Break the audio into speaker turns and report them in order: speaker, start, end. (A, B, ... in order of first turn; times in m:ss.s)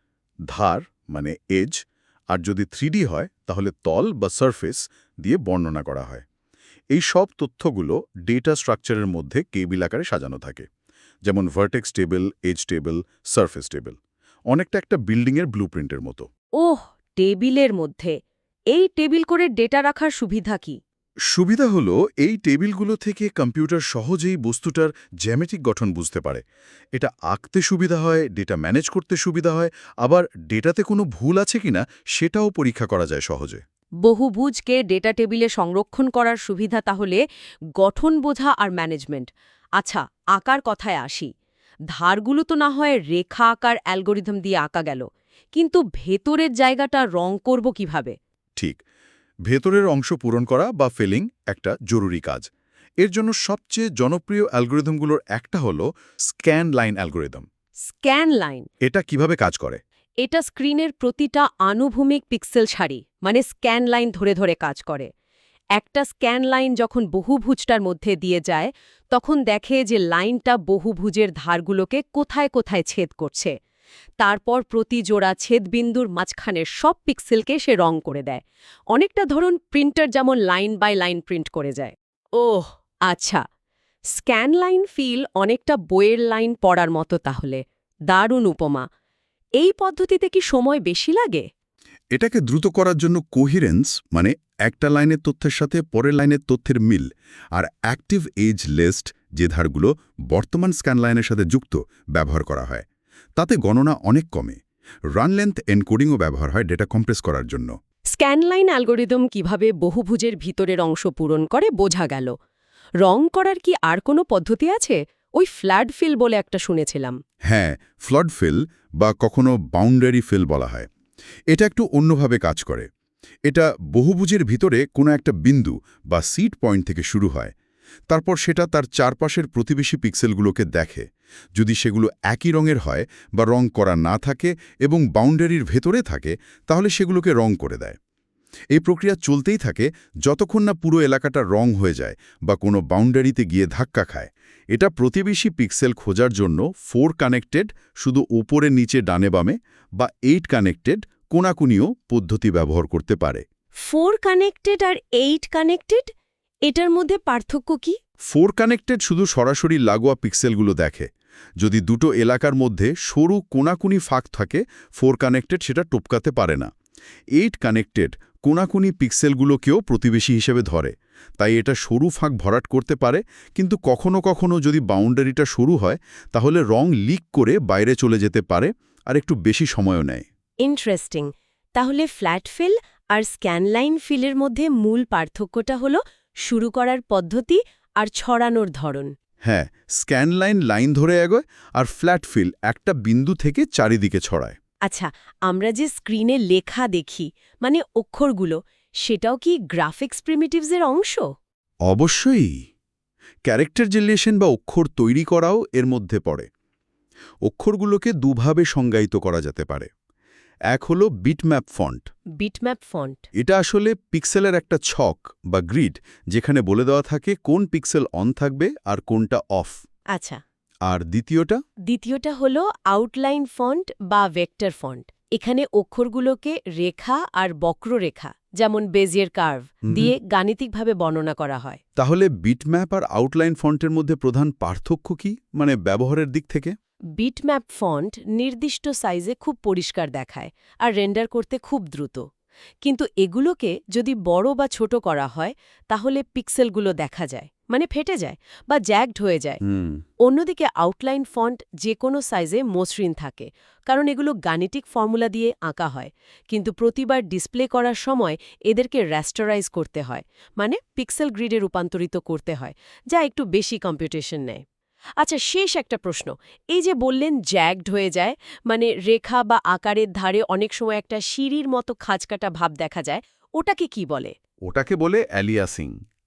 0:00.5-0:01.8 A
0:02.3-0:06.2 A
0:06.9-0:10.6 A
0:11.2-0:14.0 A
0:14.5-0:16.3 A
0:16.6-0:18.1 B
0:18.7-0:20.8 B
0:21.3-0:26.4 A
0:26.9-0:33.6 A
0:34.0-0:37.2 B
0:37.8-0:41.3 B
0:41.9-0:48.2 B
0:49.5-0:52.4 A
0:53.0-0:57.4 A
0:57.8-0:58.7 B
0:58.8-0:59.8 A
1:00.2-1:05.1 B
1:05.8-1:13.5 B
1:14.2-1:23.4 B
1:24.1-1:28.9 B
1:29.6-1:31.4 B
1:32.1-1:42.8 A
1:43.4-1:44.6 A
1:45.2-1:47.7 A
1:48.1-1:52.3 B
1:53.0-1:57.2 B
1:57.5-2:00.9 A
2:01.5-2:02.9 A
2:03.5-2:07.5 A
2:08.1-2:11.0 A
2:11.6-2:18.0 A
2:18.7-2:33.4 A
2:33.8-2:36.1 B
2:36.6-2:38.0 B
2:38.3-2:41.1 A
2:41.6-2:46.7 A
2:47.4-3:00.2 A
3:00.6-3:09.1 B
3:09.4-3:14.6 A
3:14.9-3:21.3 B
3:21.9-3:22.6 A
3:23.4-3:26.4 A
3:27.4-3:29.9 A
3:30.7-3:32.1 A
3:32.4-3:33.2 B
3:33.3-3:39.8 A
3:40.1-3:40.4 B
3:40.8-3:41.6 A
3:41.9-3:51.8 B
3:52.0-3:56.7 A
3:57.2-4:02.2 B
4:02.8-4:09.6 B
4:09.6-4:10.0 A
4:10.2-4:24.6 B
4:25.2-4:34.3 B
4:34.6-4:36.0 A